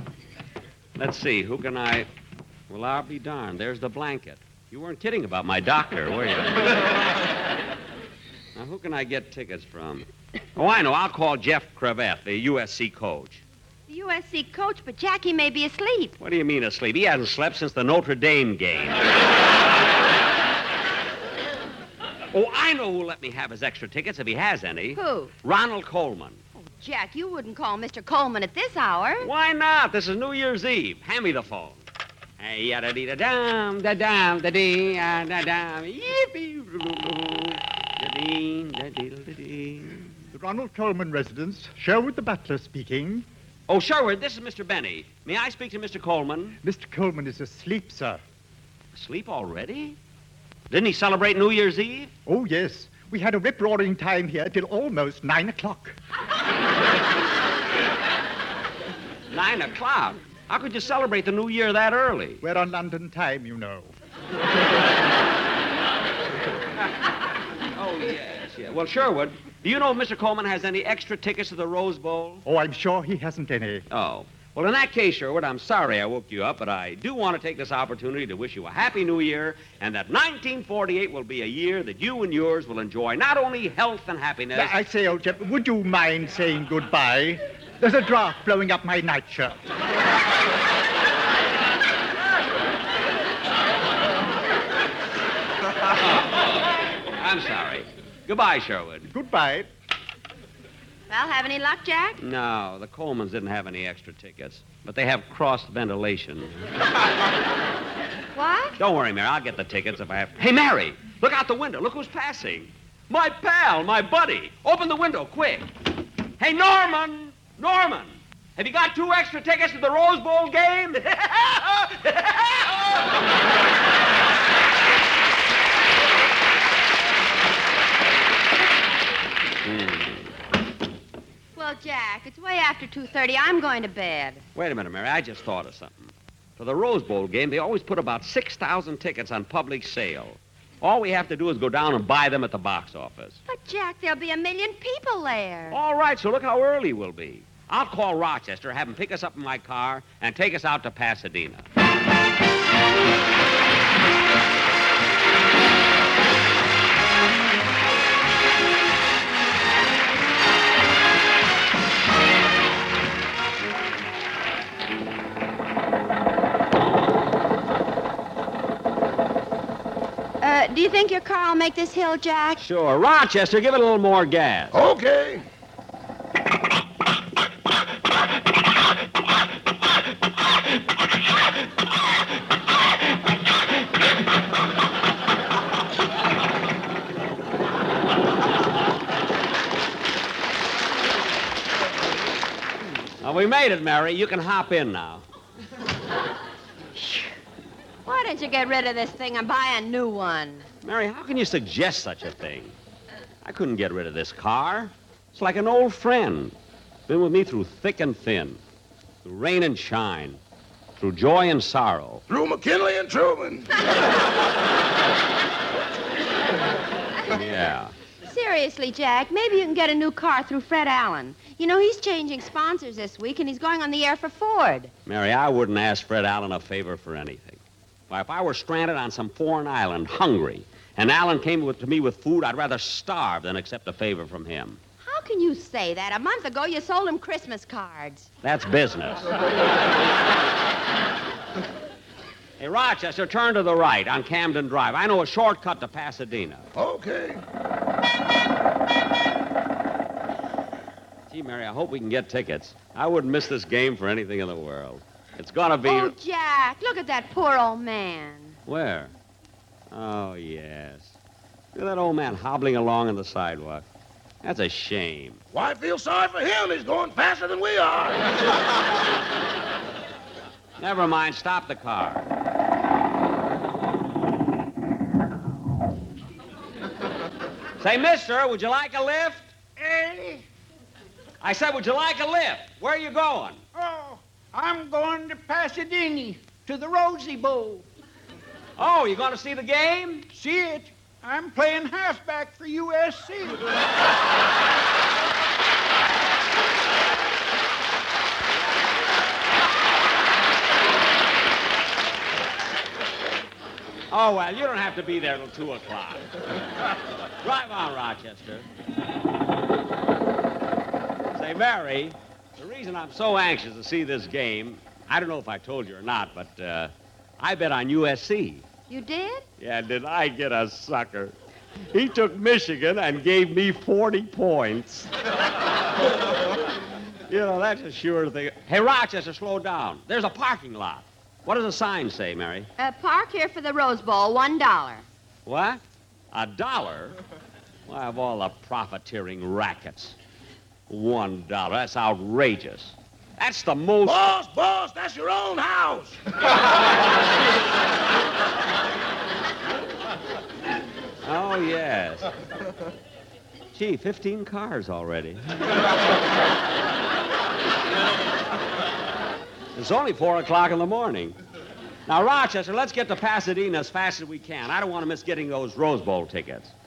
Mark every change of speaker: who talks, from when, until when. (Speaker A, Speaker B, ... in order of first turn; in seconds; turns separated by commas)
Speaker A: 1.0-2.1, Speaker A: 2.7-6.8, Speaker A: 8.6-13.4, Speaker B: 13.9-16.2, Speaker A: 16.2-19.1, Speaker A: 22.3-26.4, Speaker B: 25.0-25.3, Speaker B: 26.7-29.3, Speaker A: 29.2-31.8, Speaker A: 32.4-40.2, Speaker C: 40.3-43.3, Speaker A: 43.7-46.6, Speaker C: 46.6-48.2, Speaker A: 48.9-50.0, Speaker A: 50.7-52.1, Speaker C: 52.3-56.0, Speaker A: 59.3-62.4, Speaker C: 62.4-63.9, Speaker A: 67.8-72.4, Speaker C: 72.5-73.8, Speaker A: 73.9-84.8, Speaker C: 84.5-89.6, Speaker A: 95.9-96.6, Speaker A: 97.2-99.1, Speaker C: 99.1-99.7, Speaker B: 101.1-102.2, Speaker A: 102.2-106.7, Speaker B: 108.3-108.8, Speaker A: 108.8-115.7, Speaker A: 116.4-122.8, Speaker A: 129.6-130.3, Speaker B: 131.6-134.4, Speaker A: 134.6-143.4, Speaker B: 143.5-145.8, Speaker A: 145.7-151.7, Speaker B: 170.4-172.6, Speaker A: 172.6-174.8, Speaker D: 174.8-175.4, Speaker A: 193.2-195.2, Speaker B: 197.0-197.3, Speaker B: 198.1-200.7, Speaker A: 200.8-202.8, Speaker A: 203.4-206.6, Speaker A: 207.1-208.6, Speaker A: 209.2-210.4, Speaker A: 211.0-212.2, Speaker D: 212.3-213.7, Speaker A: 217.3-217.9, Speaker B: 218.3-224.9, Speaker A: 225.1-234.8, Speaker B: 235.0-238.3, Speaker A: 238.4-239.3, Speaker A: 242.6-246.7, Speaker D: 246.8-247.4, Speaker A: 251.3-256.1, Speaker B: 255.8-258.6, Speaker A: 258.7-259.1, Speaker A: 259.9-261.2, Speaker A: 261.8-263.9, Speaker A: 264.4-265.4, Speaker D: 265.5-268.2, Speaker A: 270.8-272.3, Speaker A: 277.8-279.5, Speaker E: 279.8-280.4, Speaker A: 281.4-283.6, Speaker E: 283.8-287.9, Speaker A: 288.8-290.3, Speaker E: 290.3-293.6, Speaker A: 304.1-306.3, Speaker A: 307.4-308.7, Speaker A: 311.3-318.7, Speaker B: 318.9-319.4, Speaker A: 319.6-321.4, Speaker A: 321.9-325.1, Speaker A: 327.3-332.7, Speaker B: 332.8-335.0, Speaker A: 335.5-335.8, Speaker A: 336.3-337.2, Speaker A: 337.9-340.1, Speaker A: 340.9-344.4, Speaker D: 344.1-346.1, Speaker A: 351.2-352.3, Speaker A: 353.7-355.7, Speaker A: 359.8-361.4, Speaker A: 362.1-366.7